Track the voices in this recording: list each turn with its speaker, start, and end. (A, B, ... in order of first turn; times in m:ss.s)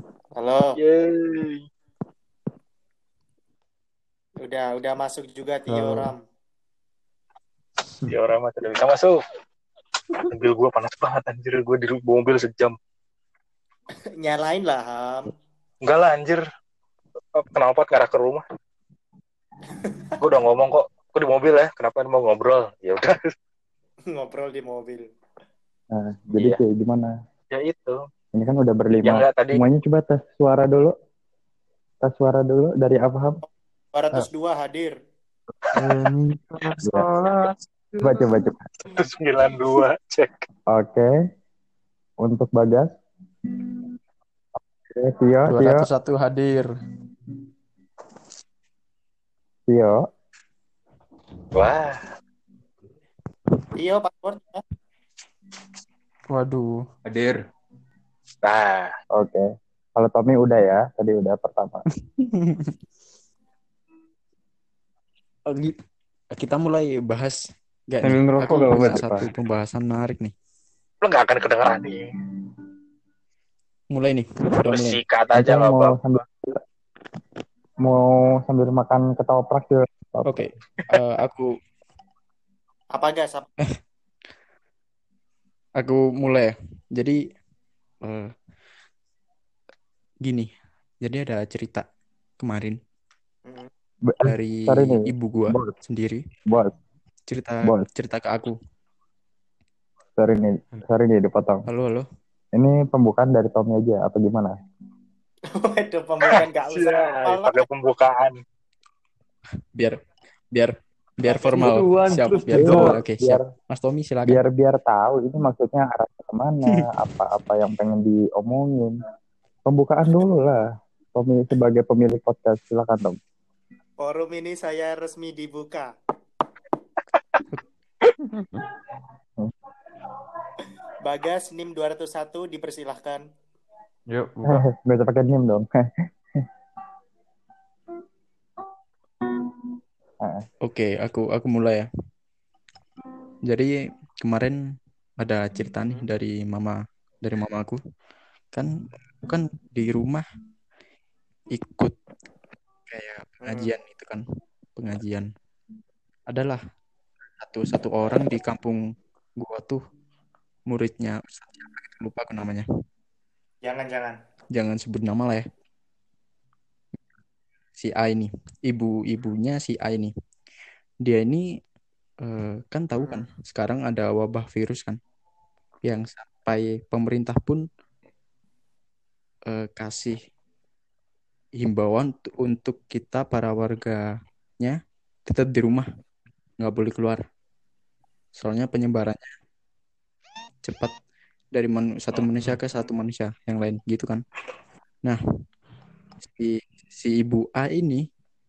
0:00.4-0:00.8 A
0:00.8-0:01.6 B
0:04.4-0:06.2 A
0:08.1-0:09.2 B
0:10.3-0:12.8 B
0:14.2-0:15.3 A
0:15.8-0:16.4 B
0:17.3-0:18.4 B
0:19.7-0:20.2 A
0:20.2-0:23.3 B
0:24.1-0:25.1 A
0:25.9-0:27.1 C
0:27.5-0:28.0 B
0:28.4-0:31.0 C
0:29.0-0:29.6 B
0:32.0-0:33.4 C
0:33.9-0:35.0 A
0:35.8-0:36.1 C
0:35.9-0:37.1 D
0:36.8-0:37.1 C
0:38.0-0:38.6 C
0:38.9-0:40.4 B
0:40.7-0:41.1 C
0:42.2-0:43.0 C
0:44.9-0:45.9 C
0:45.5-0:46.7 D
0:49.7-0:50.0 C
0:51.5-0:52.1 B
0:53.8-0:54.6 A
0:56.3-0:56.8 D
0:57.1-0:57.4 E
0:58.4-0:58.9 B
0:59.2-0:59.5 C
1:00.0-1:01.8 C
1:02.2-1:02.8 D
1:05.5-1:05.8 D
1:06.3-1:07.4 D
1:07.9-1:10.3 D
1:08.0-1:09.3 E
1:08.8-1:09.2 C
1:11.0-1:12.1 B
1:13.9-1:15.0 D
1:14.7-1:16.0 B
1:15.4-1:16.6 C
1:17.8-1:20.5 C
1:20.2-1:21.5 D
1:22.9-1:23.5 A
1:25.8-1:27.2 D
1:28.0-1:28.3 D
1:30.2-1:30.5 D
1:31.0-1:31.9 D
1:32.4-1:32.8 D
1:34.1-1:35.8 C
1:34.2-1:36.2 D
1:37.3-1:38.6 D
1:40.2-1:41.6 C
1:41.7-1:42.1 D
1:42.6-1:44.5 C
1:45.5-1:47.6 A
1:46.3-1:48.3 B
1:50.5-1:54.4 D
1:51.3-1:51.6 A
1:51.4-1:53.0 E
1:52.5-1:53.5 C
1:54.3-1:59.0 C
1:56.7-1:56.9 D
1:59.7-2:00.6 C
2:01.2-2:03.2 C
2:04.0-2:05.9 A
2:07.1-2:07.4 B
2:08.2-2:08.6 E
2:11.0-2:13.2 A
2:14.1-2:14.6 E
2:14.5-2:16.5 C
2:20.6-2:21.9 D
2:23.5-2:24.6 D
2:25.2-2:27.8 D
2:29.3-2:30.2 D
2:31.5-2:32.0 D
2:32.9-2:34.2 D
2:33.4-2:33.7 A
2:34.8-2:35.3 D
2:36.3-2:36.6 D
2:37.4-2:38.8 D
2:39.4-2:39.8 D
2:40.7-2:42.7 D
2:43.6-2:44.2 A
2:44.5-2:45.4 D
2:47.8-2:50.1 D
2:51.0-2:51.4 D
2:52.2-2:55.0 D
2:53.0-2:53.3 A
2:55.8-2:57.7 D
2:59.5-3:00.2 D
3:01.6-3:04.0 D
3:04.6-3:05.9 D
3:06.6-3:07.2 D
3:08.4-3:09.3 D
3:10.6-3:11.0 D
3:11.6-3:14.2 D
3:16.2-3:18.1 D